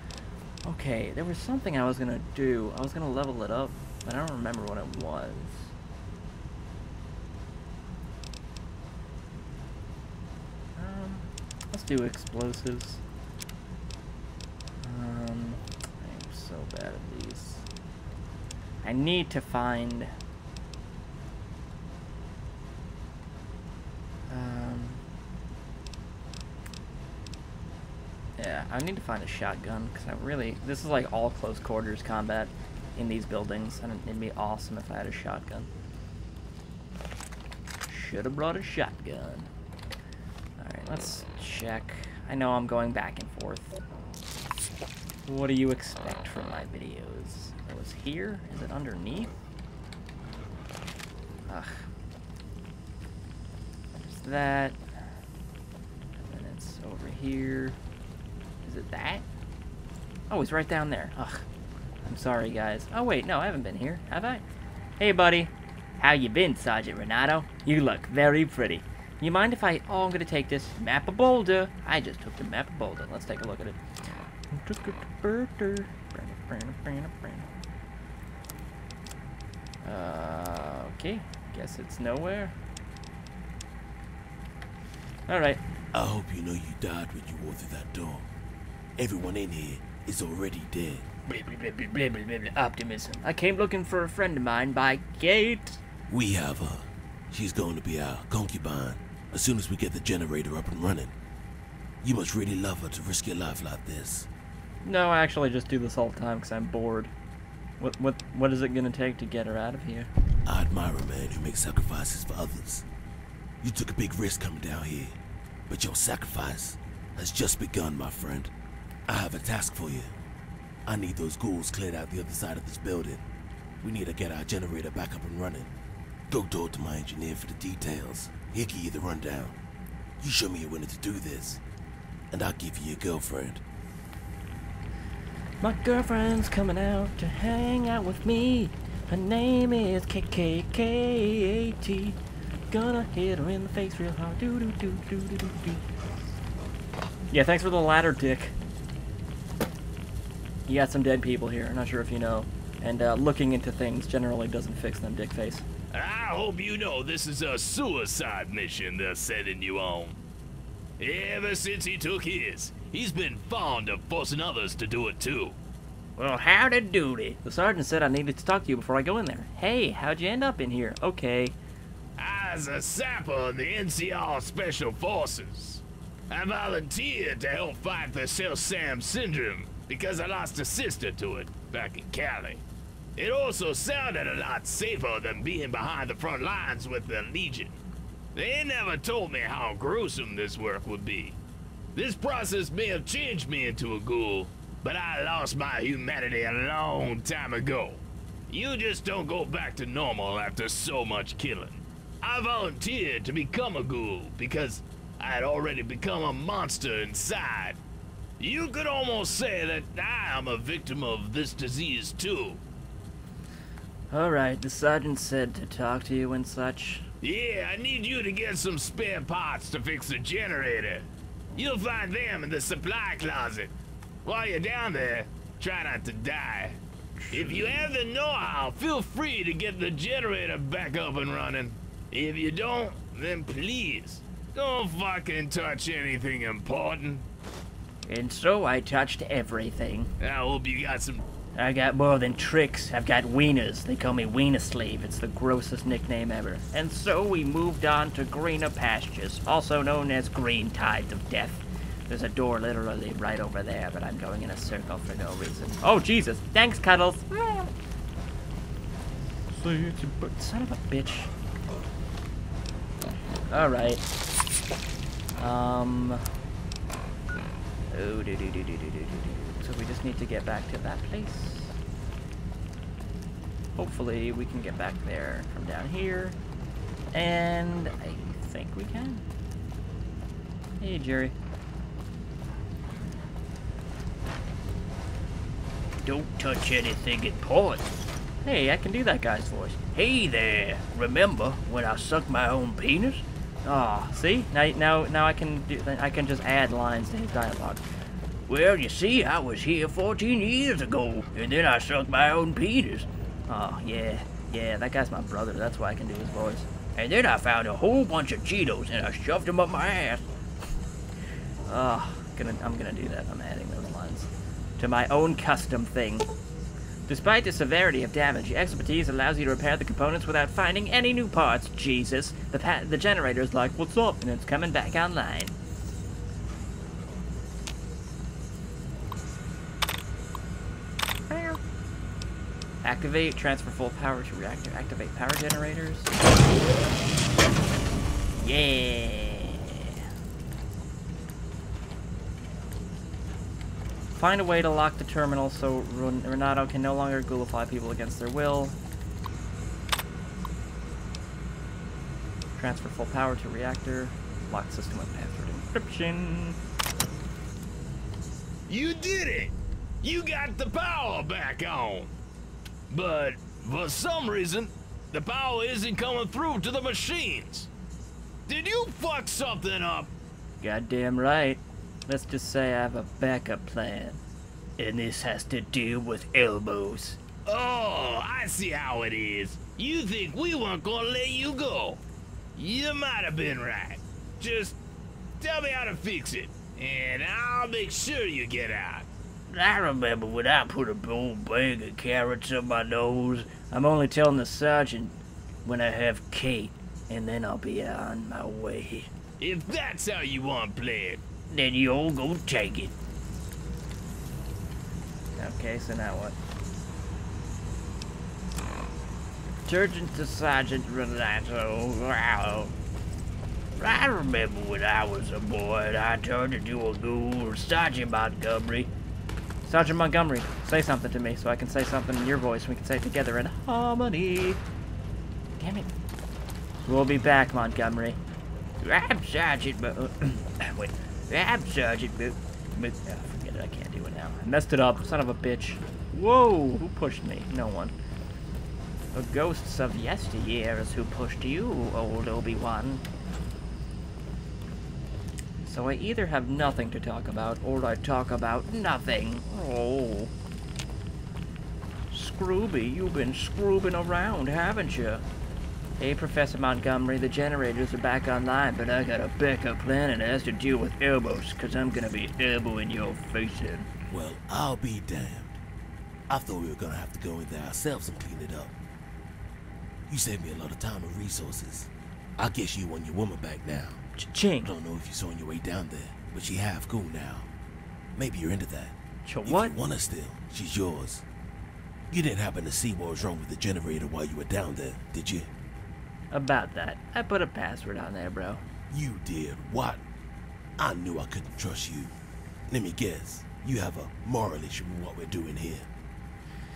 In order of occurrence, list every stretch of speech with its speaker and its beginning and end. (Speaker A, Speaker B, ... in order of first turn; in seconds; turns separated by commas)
Speaker A: 0.6-5.7, Speaker A: 10.8-13.0, Speaker A: 14.8-17.6, Speaker A: 18.8-20.1, Speaker A: 24.3-25.0, Speaker A: 28.4-35.7, Speaker A: 37.9-39.5, Speaker A: 40.6-43.7, Speaker A: 45.2-49.3, Speaker A: 51.5-51.7, Speaker A: 54.0-54.8, Speaker A: 56.3-57.8, Speaker A: 58.6-59.2, Speaker A: 60.3-61.4, Speaker A: 62.0-64.4, Speaker A: 65.0-73.8, Speaker A: 74.5-77.5, Speaker A: 79.8-82.5, Speaker A: 85.3-85.6, Speaker B: 85.9-88.3, Speaker B: 89.0-91.0, Speaker A: 91.2-95.8, Speaker B: 96.1-101.1, Speaker B: 102.0-104.3, Speaker A: 104.8-107.1, Speaker A: 107.8-110.1, Speaker B: 110.4-112.8, Speaker B: 113.6-118.5, Speaker B: 119.1-120.2, Speaker B: 120.8-123.2, Speaker B: 123.8-125.7, Speaker B: 126.3-129.6, Speaker B: 130.2-131.6, Speaker B: 132.3-133.6, Speaker A: 135.6-142.2, Speaker A: 142.7-145.8, Speaker A: 147.3-148.5, Speaker A: 150.7-155.6, Speaker C: 155.9-160.2, Speaker C: 161.0-165.6, Speaker A: 166.2-171.5, Speaker C: 172.2-182.6, Speaker C: 183.2-187.8, Speaker C: 188.3-191.4, Speaker C: 191.9-207.8, Speaker C: 208.4-212.6, Speaker A: 214.1-217.0, Speaker C: 217.2-223.7, Speaker C: 224.2-226.8, Speaker A: 227.2-227.9, Speaker C: 227.3-237.2, Speaker A: 238.0-240.1, Speaker C: 240.2-241.3, Speaker A: 241.5-257.7, Speaker A: 259.5-261.3, Speaker A: 263.5-264.0, Speaker A: 265.4-266.2, Speaker A: 267.9-271.8, Speaker A: 273.8-276.4, Speaker A: 277.1-279.2, Speaker A: 280.8-281.3, Speaker A: 286.0-287.9, Speaker A: 288.4-297.8, Speaker A: 298.5-310.2, Speaker A: 311.6-316.3, Speaker A: 317.1-325.6, Speaker A: 331.3-331.6, Speaker A: 332.8-336.1, Speaker A: 338.4-339.9, Speaker A: 344.2-348.8, Speaker A: 352.6-356.6, Speaker C: 358.7-362.1, Speaker C: 362.9-367.7, Speaker C: 368.5-370.1, Speaker A: 370.6-374.2, Speaker A: 374.8-377.2, Speaker C: 377.4-382.0, Speaker C: 382.6-384.8, Speaker C: 385.4-389.1, Speaker A: 389.5-399.1, Speaker C: 399.4-401.2, Speaker A: 401.5-402.9, Speaker A: 405.4-406.4, Speaker A: 409.6-412.7, Speaker A: 413.8-418.9, Speaker A: 419.6-424.6, Speaker A: 425.6-425.9, Speaker A: 426.9-428.2, Speaker A: 428.8-437.9, Speaker A: 439.1-443.0, Speaker A: 445.6-450.3, Speaker A: 452.1-455.2, Speaker A: 456.0-463.9, Speaker B: 464.1-465.6, Speaker B: 466.3-468.8, Speaker B: 470.1-474.0, Speaker A: 474.2-474.7, Speaker B: 474.6-477.5, Speaker B: 478.1-481.2, Speaker A: 479.2-479.8, Speaker B: 482.1-485.5, Speaker A: 486.3-488.6, Speaker B: 488.9-490.0, Speaker B: 490.8-492.1, Speaker B: 492.7-495.9